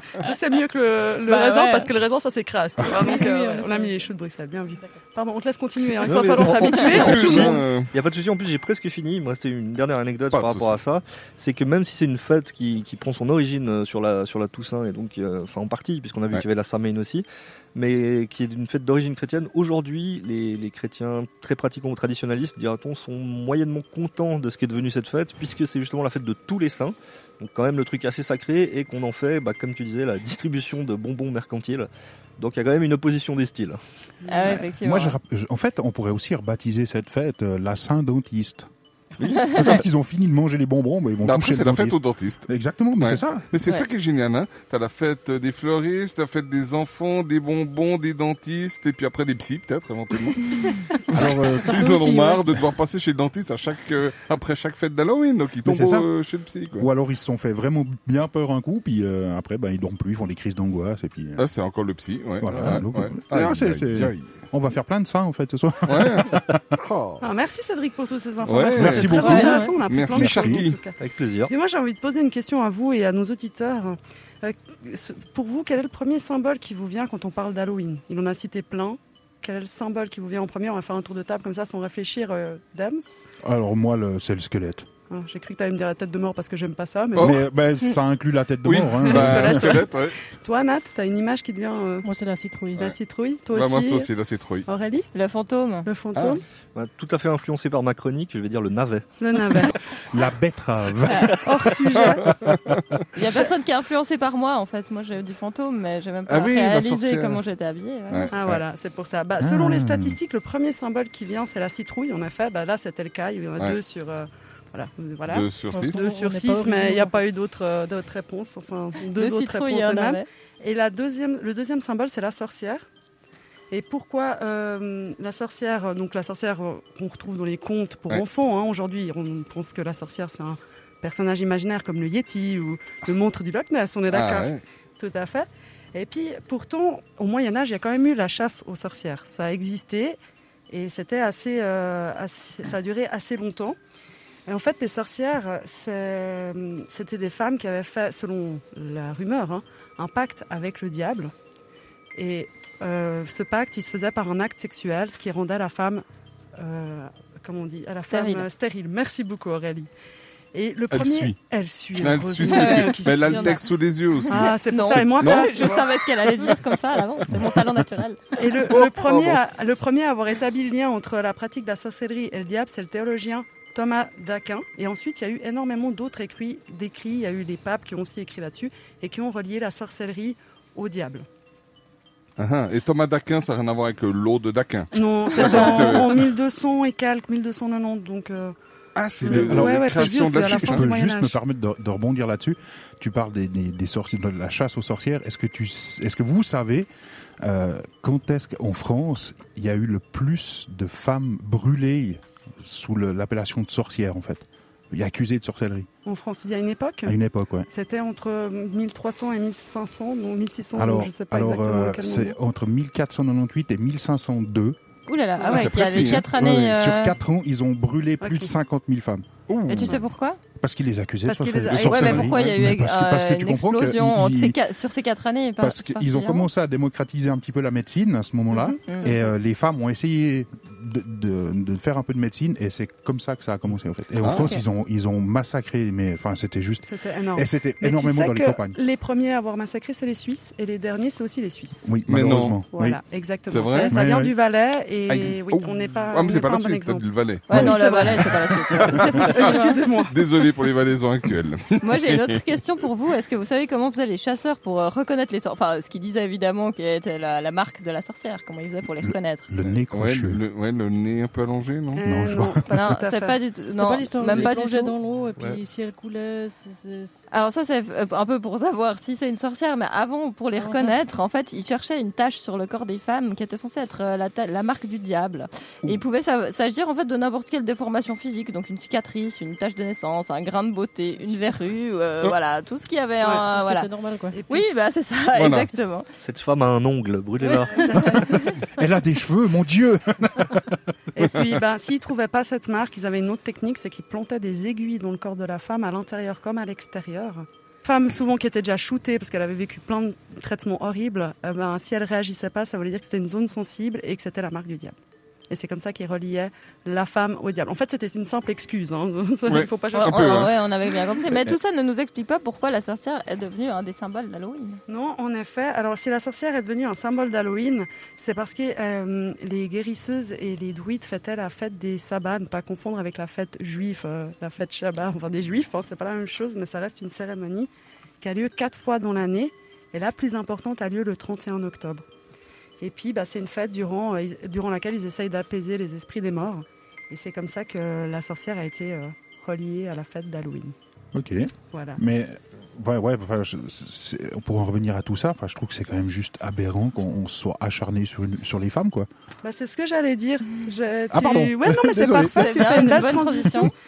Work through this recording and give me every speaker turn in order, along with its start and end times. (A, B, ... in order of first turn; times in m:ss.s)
0:00.2-0:07.6 A
0:01.3-0:01.9 B
0:02.9-0:04.1 C
0:06.0-0:33.8 D
0:06.9-0:07.9 E
0:10.3-0:10.8 E
0:34.3-0:35.2 B
0:34.5-0:38.7 F
0:39.2-0:39.8 D
0:39.4-0:39.7 B
0:39.4-0:43.5 F
0:41.2-0:56.9 E
0:51.1-0:51.9 F
0:51.2-0:52.4 C
0:55.6-0:56.1 F
0:56.8-1:01.5 F
1:01.4-1:04.3 E
1:02.4-1:06.6 F
1:05.9-1:07.3 E
1:07.2-1:23.2 A
1:08.4-1:10.8 E
1:08.7-1:10.6 F
1:09.2-1:09.7 B
1:11.0-1:11.5 D
1:23.4-1:24.9 F
1:25.1-1:27.4 A
1:27.1-1:27.4 E
1:27.2-1:29.8 F
1:28.6-1:30.2 E
1:29.0-1:32.0 A
1:32.0-1:32.8 C
1:32.8-1:34.1 A
1:33.5-1:34.7 E
1:34.7-1:35.1 A
1:35.1-1:35.9 B
1:35.9-1:36.4 A
1:36.1-1:36.4 E
1:36.8-1:39.1 D
1:39.2-1:39.8 A
1:39.9-1:42.8 F
1:41.1-1:41.3 B
1:41.3-1:42.4 A
1:43.1-1:48.3 B
1:46.3-1:47.4 E
1:48.1-1:48.6 E
1:48.3-2:02.9 A
1:49.4-1:50.2 F
1:55.3-1:56.0 E
1:55.7-1:57.2 C
1:59.2-2:00.2 B
2:03.7-2:23.8 A
2:14.1-2:14.6 E
2:24.5-2:31.3 A
2:32.2-2:36.0 A
2:36.6-2:39.9 A
2:38.1-2:38.5 B
2:40.5-2:43.7 A
2:40.9-2:41.4 E
2:42.0-2:45.7 E
2:42.5-2:43.6 B
2:44.3-2:46.6 A
2:44.3-2:48.2 B
2:48.4-3:01.3 A
2:48.7-2:49.4 E
3:02.4-3:06.3 E
3:04.9-3:08.6 A
3:09.0-3:10.9 E
3:09.2-3:11.4 A
3:09.3-3:25.9 F
3:26.0-3:27.2 A
3:27.0-3:27.7 F
3:27.7-3:32.4 A
3:30.8-3:34.8 F
3:35.1-3:37.2 B
3:35.5-3:36.2 E
3:36.0-3:39.3 F
3:38.2-3:38.5 A
3:39.5-3:40.0 E
3:39.7-3:40.4 B
3:40.6-3:44.6 F
3:41.2-3:42.6 A
3:41.8-3:46.5 B
3:45.6-3:58.8 F
3:48.5-3:49.1 A
3:48.8-3:49.2 B
3:54.2-3:54.6 E
3:54.3-3:54.6 B
3:56.8-4:02.0 A
4:01.8-4:03.0 F
4:02.1-4:02.6 E
4:02.7-4:10.2 A
4:03.5-4:04.0 E
4:03.8-4:04.3 F
4:05.1-4:07.4 E
4:07.5-4:09.8 B
4:07.5-4:08.3 F
4:08.8-4:09.2 F
4:09.1-4:12.4 E
4:11.8-4:19.5 B
4:19.0-4:20.4 F
4:19.9-4:22.0 E
4:22.0-4:23.4 A
4:22.0-4:22.9 F
4:22.7-4:25.0 B
4:23.7-4:27.2 C
4:25.4-4:25.6 D
4:27.3-4:43.9 B
4:30.6-4:31.0 C
4:43.4-4:44.4 C
4:44.3-4:44.8 A
4:44.5-4:46.1 B
4:45.3-4:45.7 E
4:46.2-4:47.9 D
4:47.4-4:48.6 C
4:47.7-4:48.6 A
4:48.8-4:50.8 F
4:51.2-5:05.0 A
5:05.5-5:10.5 A
5:09.5-5:10.5 E
5:09.9-5:14.8 B
5:14.9-5:27.7 A
5:28.2-5:32.0 A
5:32.8-5:40.8 A
5:41.1-5:49.1 F
5:41.7-5:42.0 A
5:49.4-5:53.7 A
5:51.1-5:53.3 F
5:52.3-5:53.7 B